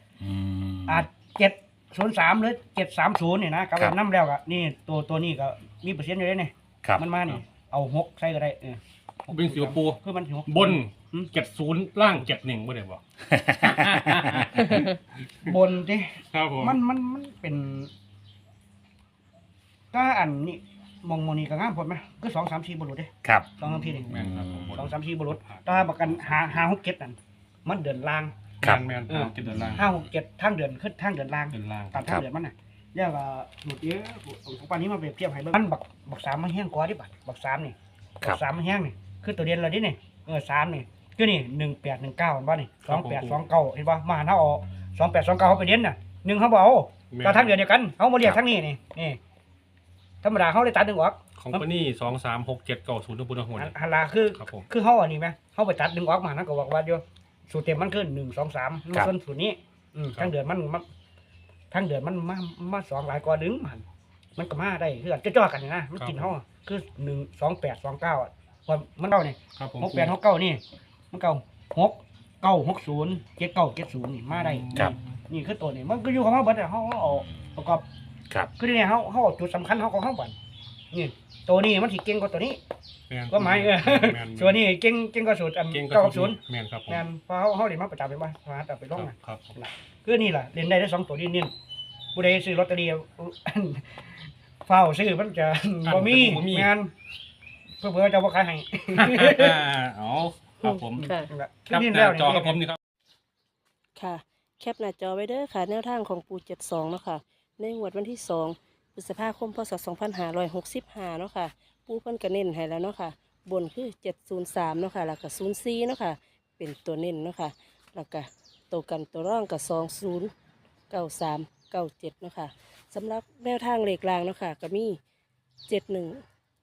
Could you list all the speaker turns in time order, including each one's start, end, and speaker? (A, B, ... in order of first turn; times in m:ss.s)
0:00.2-0:01.0 A
0:00.9-0:11.3 B
0:09.3-0:13.0 C
0:13.3-0:14.5 A
0:13.6-0:15.6 C
0:15.4-0:17.9 B
0:16.3-0:16.8 C
0:19.9-0:24.1 B
0:23.2-0:23.5 A
0:23.6-0:26.7 C
0:24.1-0:24.8 A
0:24.7-0:28.4 B
0:28.6-0:29.9 C
0:29.1-0:49.2 B
0:31.5-0:32.1 C
0:32.0-0:32.2 A
0:42.8-0:43.4 C
0:47.1-0:47.5 C
0:50.2-0:51.6 B
0:51.4-0:53.7 C
0:53.5-1:00.8 B
0:54.3-0:54.7 C
1:01.7-1:03.8 B
1:04.4-1:17.8 B
1:06.0-1:06.3 C
1:09.6-1:10.1 C
1:14.3-1:15.0 C
1:18.6-1:20.4 B
1:20.9-1:22.6 B
1:23.1-1:24.6 C
1:23.3-1:31.5 B
1:25.7-1:27.1 C
1:28.9-1:29.5 C
1:32.1-1:34.0 B
1:34.6-1:36.9 B
1:35.8-1:36.7 C
1:37.8-1:39.6 B
1:38.9-1:41.1 C
1:40.6-1:41.3 D
1:41.0-1:42.6 B
1:41.7-1:42.8 C
1:44.0-2:00.3 D
2:00.9-2:05.0 D
2:05.7-2:06.2 D